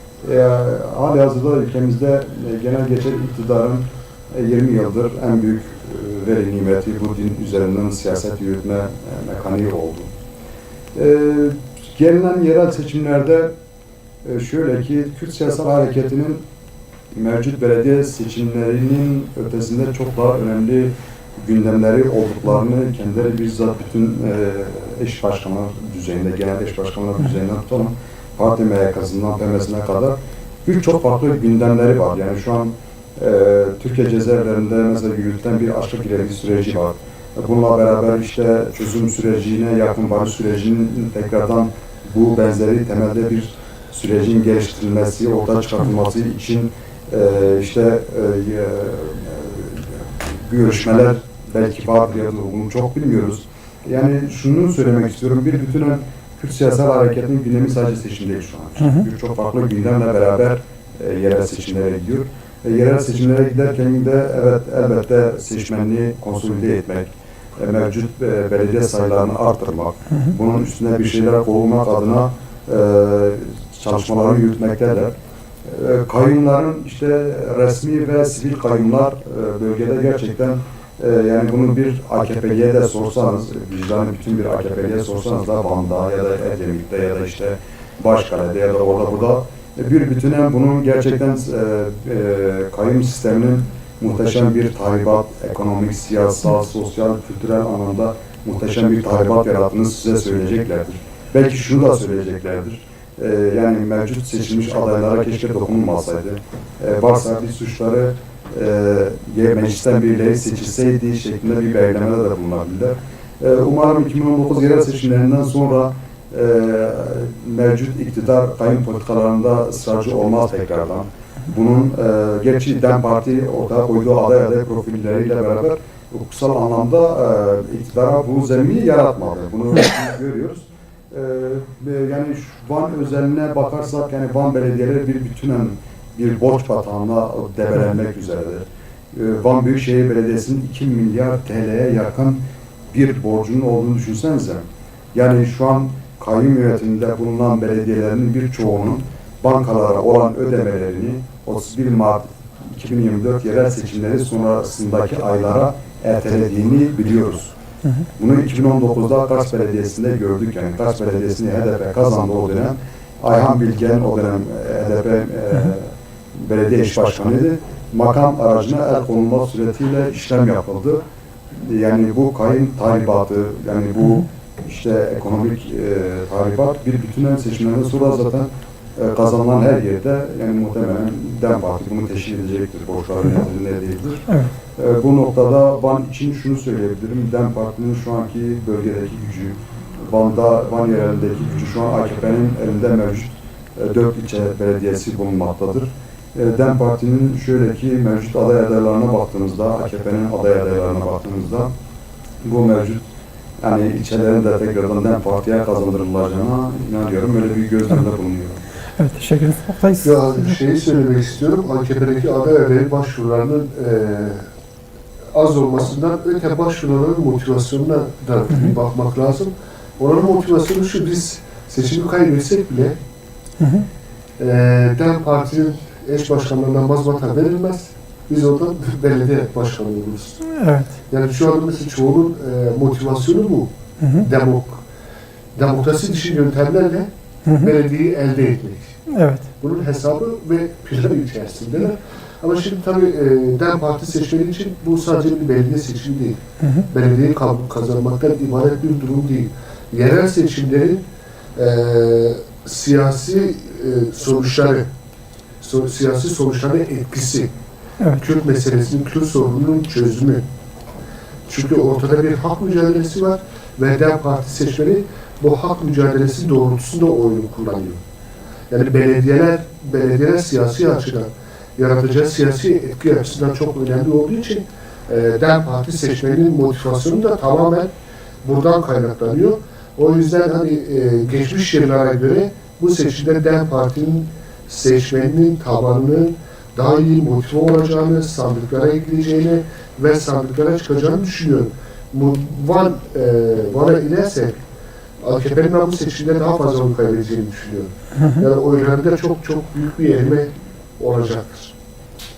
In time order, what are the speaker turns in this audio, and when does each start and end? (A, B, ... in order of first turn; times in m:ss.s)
0:00.2-0:10.1 A
0:11.0-0:13.5 A
0:14.2-0:16.5 A
0:17.1-1:15.1 A
1:15.6-2:22.4 A
2:22.9-2:37.6 A
2:38.2-2:51.0 A
2:51.5-3:21.7 A
3:22.4-3:23.0 A
3:23.6-3:28.6 A
3:29.0-3:30.6 B
3:30.0-3:34.5 C
3:35.3-3:43.0 C
3:43.6-3:43.9 B
3:44.4-3:50.4 C
3:50.5-3:50.9 B
3:51.1-3:54.8 C
3:55.6-3:57.1 C
3:57.5-3:57.7 B
3:57.6-3:59.0 C
3:59.1-3:59.4 B
3:59.6-4:11.0 C
4:06.6-4:06.9 B
4:11.6-4:14.9 C
4:15.6-4:17.5 C
4:18.2-4:20.5 C
4:21.5-4:28.0 C
4:28.7-4:37.9 C
4:38.4-4:54.6 C
4:55.2-5:01.8 C